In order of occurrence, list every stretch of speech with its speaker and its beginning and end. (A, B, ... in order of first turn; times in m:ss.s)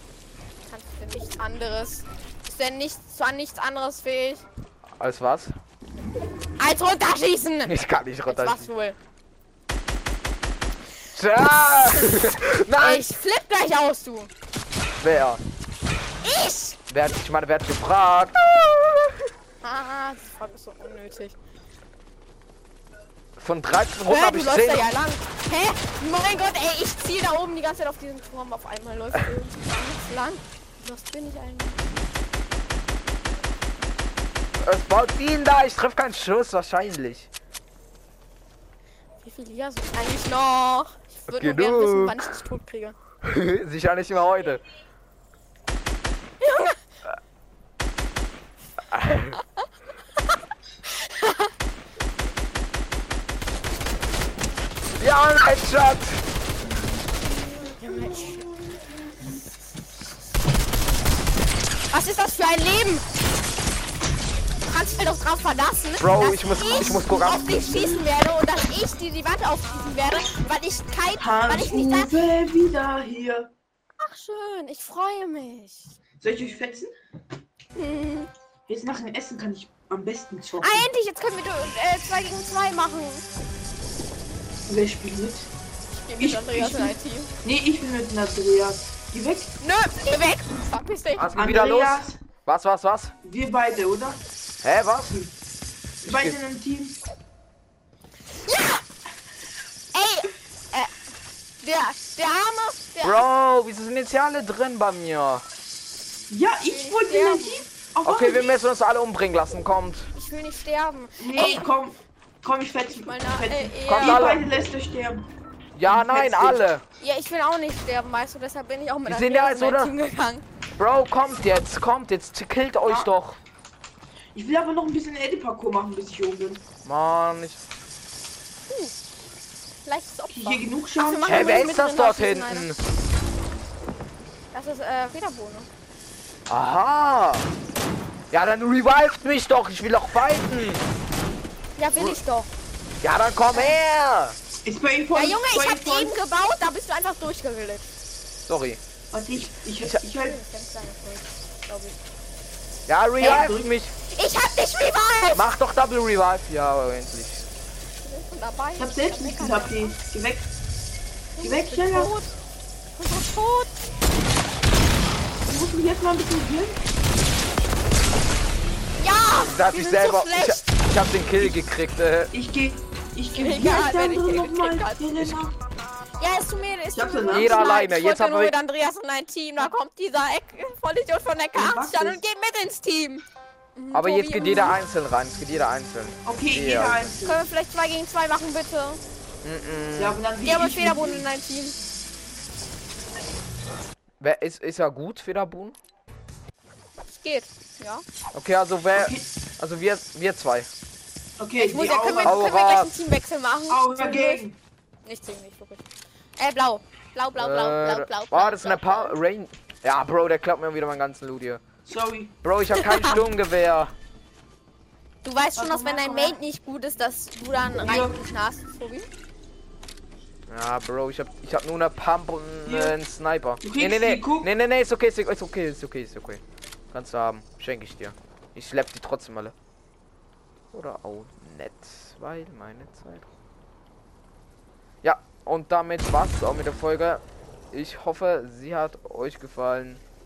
0:00.7-0:04.5 A
0:05.0-0:05.5 B
0:06.6-0:07.7 A
0:07.7-0:08.7 B
0:08.3-0:09.0 A
0:11.1-0:13.0 B
0:12.8-0:14.3 A
0:15.0-0:15.4 B
0:16.2-0:16.8 A
0:16.9-0:19.3 B
0:19.6-0:21.4 A
0:23.4-0:24.9 B
0:24.1-0:31.8 A
0:34.6-0:37.3 B
0:39.2-0:43.0 A
0:41.3-0:42.3 B
0:43.2-0:44.6 B
0:46.4-0:46.8 A
0:48.9-0:49.4 B
0:50.9-0:51.5 A
0:55.0-0:56.2 B
0:57.8-0:58.5 A
1:01.9-1:03.1 A
1:04.7-1:12.1 A
1:06.0-1:07.6 B
1:11.2-1:13.5 C
1:14.0-1:16.0 A
1:16.2-1:16.9 C
1:17.8-1:18.3 A
1:18.7-1:20.8 C
1:20.6-1:23.2 A
1:24.7-1:25.5 C
1:25.9-1:27.3 A
1:26.2-1:29.5 C
1:29.6-1:31.3 A
1:31.2-1:33.1 B
1:31.4-1:32.2 C
1:33.2-1:34.2 C
1:34.6-1:35.2 B
1:35.1-1:35.3 C
1:36.0-1:36.4 B
1:36.0-1:37.0 C
1:38.4-1:38.8 A
1:39.9-1:40.9 A
1:41.6-1:43.2 A
1:43.0-1:45.4 B
1:46.3-1:48.6 C
1:46.7-1:47.7 A
1:48.0-1:50.1 B
1:50.1-1:51.7 A
1:51.2-1:55.3 C
1:52.9-1:54.3 A
1:53.9-1:54.4 B
1:55.8-1:56.8 B
1:55.9-1:56.6 C
1:57.0-2:00.4 A
1:59.0-1:59.9 B
2:00.8-2:03.4 B
2:04.4-2:06.6 C
2:06.8-2:07.6 B
2:08.7-2:09.0 A
2:09.9-2:12.7 A
2:10.3-2:11.3 C
2:11.2-2:12.8 B
2:14.5-2:15.7 A
2:16.5-2:17.5 B
2:18.3-2:20.8 B
2:21.8-2:22.5 A
2:23.0-2:24.4 B
2:24.6-2:26.2 C
2:25.1-2:27.9 A
2:28.5-2:28.8 B
2:29.1-2:30.4 C
2:30.1-2:32.0 A
2:32.9-2:33.9 B
2:33.2-2:33.5 A
2:33.2-2:33.6 C
2:34.1-2:35.4 A
2:35.4-2:37.5 B
2:38.0-2:40.0 A
2:38.8-2:40.5 C
2:41.3-2:42.3 A
2:41.4-2:42.1 C
2:43.0-2:43.7 A
2:45.4-2:46.8 C
2:49.0-2:50.7 A
2:49.5-2:52.3 B
2:52.3-2:55.6 C
2:53.3-2:55.4 A
2:56.2-3:03.2 A
2:56.9-2:57.7 C
2:57.3-2:58.5 B
3:01.5-3:02.2 C
3:03.8-3:04.8 A
3:03.9-3:07.1 B
3:06.3-3:07.4 C
3:07.2-3:09.0 A
3:09.4-3:10.2 B
3:10.0-3:11.2 C
3:10.4-3:11.8 A
3:14.2-3:15.8 B
3:17.1-3:18.0 A
3:18.3-3:20.7 B
3:18.9-3:19.3 C
3:21.4-3:22.5 C
3:21.6-3:24.4 A
3:22.2-3:22.9 B
3:23.7-3:24.6 C
3:25.1-3:25.8 A
3:26.4-3:29.2 A
3:27.4-3:31.6 B
3:31.9-3:32.4 C
3:32.4-3:33.9 B
3:32.7-3:33.2 A
3:35.2-3:39.1 A
3:35.6-3:36.4 C
3:37.8-3:38.2 C
3:40.5-3:49.6 B
3:42.7-3:43.0 C
3:43.6-3:44.5 C
3:50.7-3:53.3 B
3:55.0-4:00.0 B